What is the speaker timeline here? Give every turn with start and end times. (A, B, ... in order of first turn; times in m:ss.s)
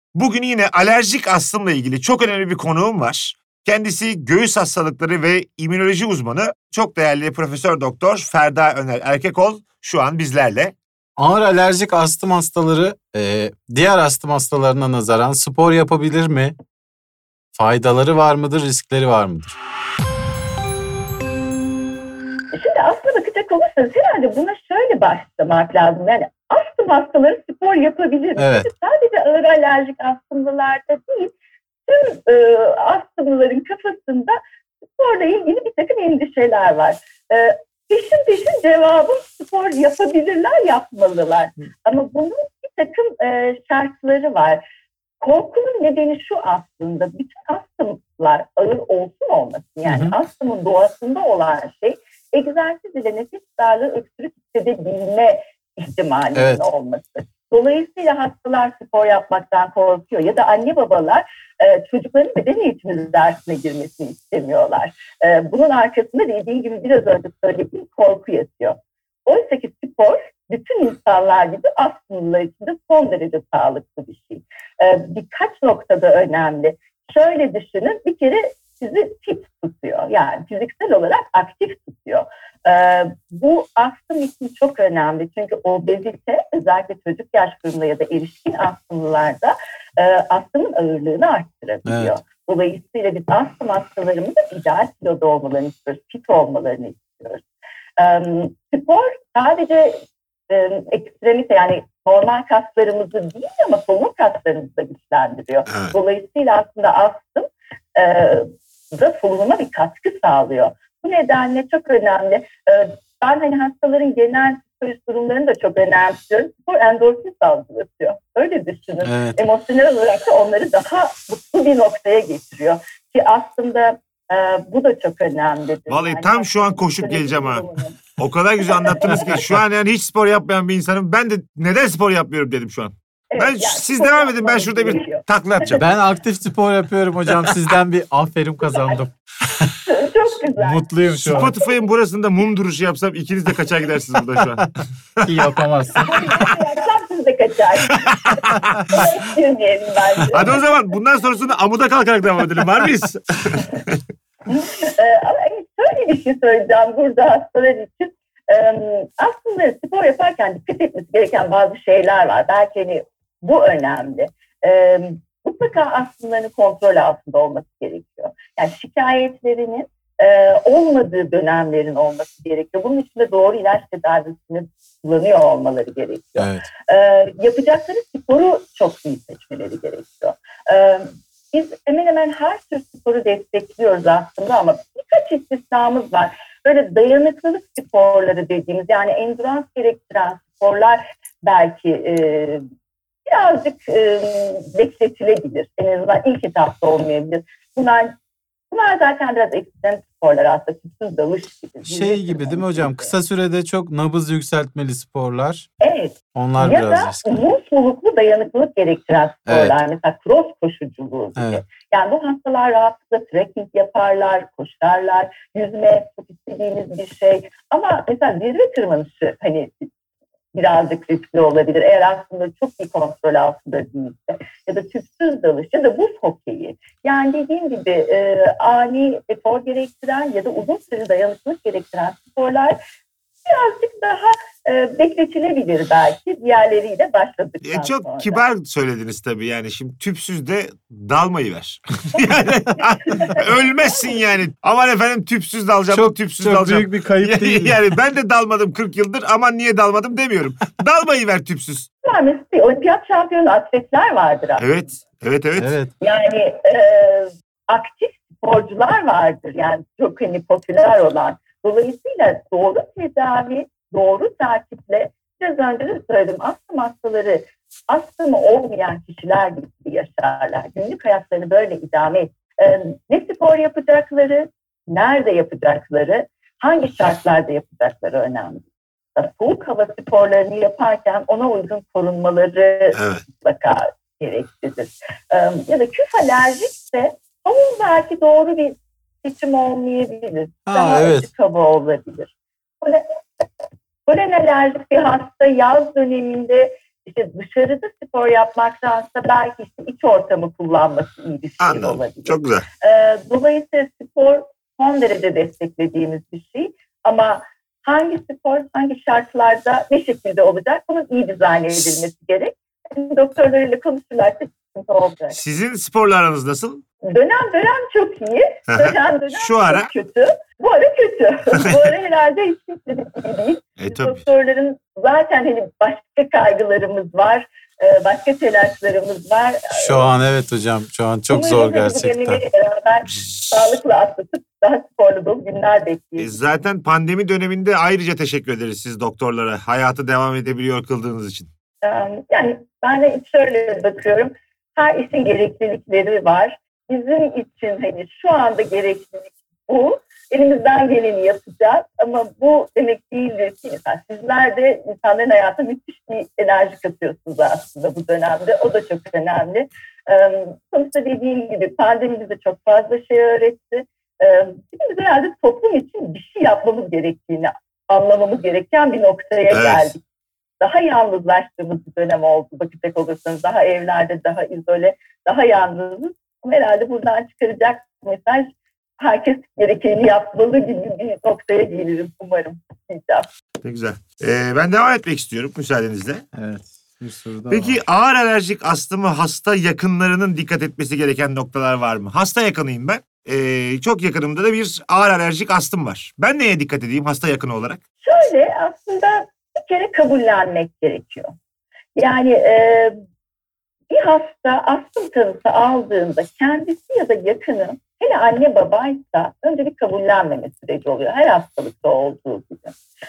0:00.1-0:10.8 A
0:11.2-0:16.5 B
0:17.6-0:19.6 B
0:22.5-0:31.3 C
0:28.4-0:28.7 B
0:31.9-0:34.4 C
0:34.9-0:44.6 C
0:45.2-1:37.4 C
0:49.8-0:50.1 B
0:56.4-0:56.6 B
1:31.9-1:32.2 B
1:38.0-2:08.0 C
1:45.7-1:45.9 A
1:59.0-1:59.4 B
2:05.9-2:07.6 A
2:08.2-2:15.8 A
2:08.8-2:09.3 C
2:13.3-2:15.9 C
2:15.8-2:19.7 B
2:18.6-2:19.1 C
2:19.9-2:21.7 C
2:20.6-2:21.5 B
2:21.2-2:26.4 A
2:25.3-2:26.1 B
2:26.0-2:28.0 C
2:27.9-2:28.6 A
2:28.9-2:30.8 C
2:30.3-2:34.0 A
2:34.5-3:12.6 C
2:56.4-2:56.6 B
3:13.3-3:18.1 C
3:18.7-3:23.1 C
3:21.9-3:25.7 B
3:25.8-3:39.9 C
3:26.3-3:27.2 B
3:29.5-3:29.8 B
3:31.4-3:31.7 B
3:40.5-3:52.8 C
3:53.4-3:58.4 C
3:57.6-4:11.9 A
4:03.1-4:04.3 C
4:05.9-4:07.8 B
4:12.0-4:14.9 C
4:14.6-4:15.8 A
4:15.6-4:15.9 B
4:16.0-4:53.0 C
4:42.9-4:43.2 A
4:50.7-4:51.3 B
4:54.1-5:15.4 C
5:01.6-5:02.6 A
5:15.3-5:16.8 A
5:17.1-5:30.1 C
5:18.7-5:19.9 A
5:23.8-5:24.2 A
5:29.7-5:32.4 B
5:31.3-5:36.4 C
5:36.2-5:41.5 A
5:41.8-6:10.0 C
6:09.5-6:09.9 A
6:10.6-6:23.3 C
6:23.6-6:26.2 A
6:26.3-6:27.8 B
6:27.5-6:37.8 A
6:38.0-6:41.3 C
6:42.0-6:43.0 C
6:43.9-6:52.8 C